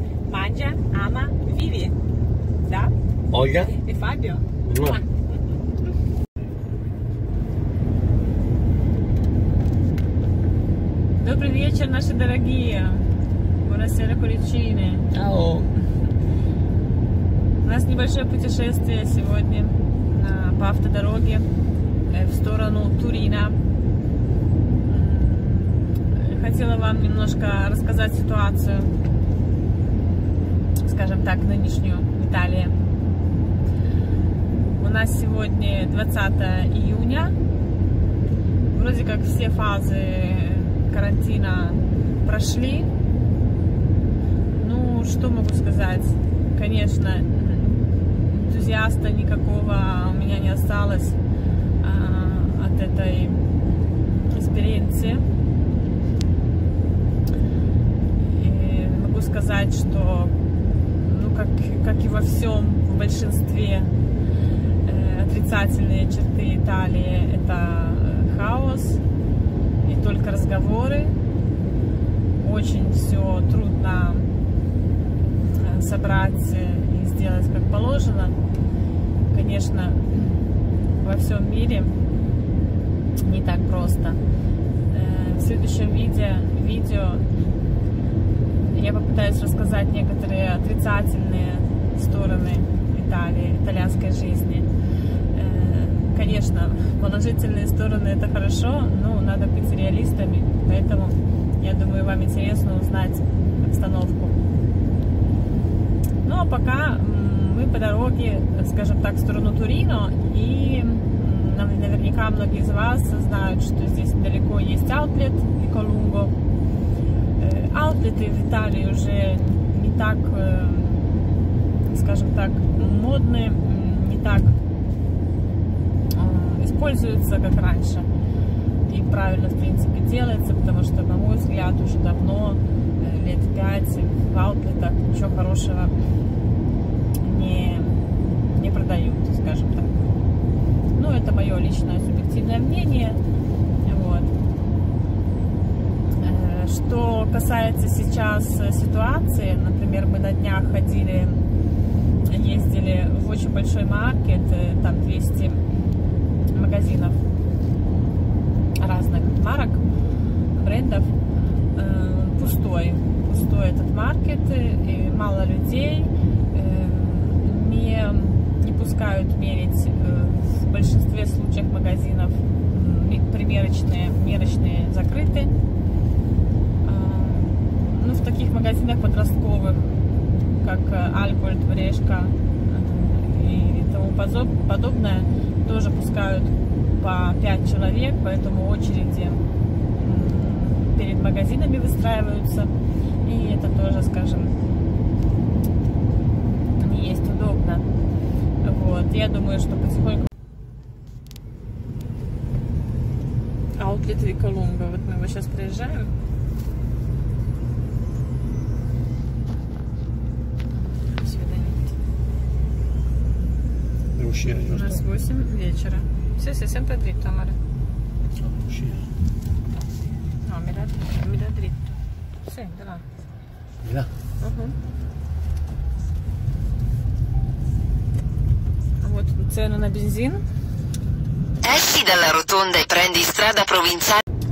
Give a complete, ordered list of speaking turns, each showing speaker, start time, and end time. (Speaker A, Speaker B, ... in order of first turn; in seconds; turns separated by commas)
Speaker A: 0.3-1.9, Speaker A: 2.6-2.9, Speaker B: 3.3-3.8, Speaker A: 3.7-5.2, Speaker B: 4.6-5.0, Speaker A: 11.2-15.1, Speaker B: 15.1-15.7, Speaker A: 17.6-21.4, Speaker A: 22.1-23.6, Speaker A: 24.8-29.0, Speaker A: 30.8-32.8, Speaker A: 34.8-37.4, Speaker A: 38.7-42.9, Speaker A: 44.6-51.2, Speaker A: 51.8-55.2, Speaker A: 58.2-60.3, Speaker A: 60.9-63.9, Speaker A: 64.8-69.0, Speaker A: 69.8-71.2, Speaker A: 72.4-74.3, Speaker A: 75.4-78.4, Speaker A: 79.3-80.4, Speaker A: 81.0-82.0, Speaker A: 83.2-84.2, Speaker A: 84.9-87.3, Speaker A: 88.7-94.7, Speaker A: 95.3-104.4, Speaker A: 106.2-116.3, Speaker A: 117.4-121.2, Speaker A: 121.9-124.6, Speaker A: 126.1-128.1, Speaker A: 128.9-136.0, Speaker A: 137.2-140.1, Speaker A: 140.9-143.2, Speaker A: 143.8-144.3, Speaker A: 146.2-151.4, Speaker A: 152.2-155.8, Speaker A: 156.5-157.2, Speaker A: 158.8-159.8, Speaker A: 160.6-161.2, Speaker A: 161.7-175.5, Speaker A: 176.8-180.0, Speaker A: 180.6-194.6, Speaker A: 196.8-197.8, Speaker A: 198.6-200.3, Speaker A: 203.8-206.1, Speaker A: 210.8-211.9, Speaker B: 214.2-215.1, Speaker A: 214.7-217.6, Speaker B: 218.4-219.1, Speaker A: 220.4-221.9, Speaker A: 222.4-223.0, Speaker B: 223.8-224.1, Speaker A: 224.4-224.8, Speaker A: 229.0-230.4, Speaker C: 231.6-234.2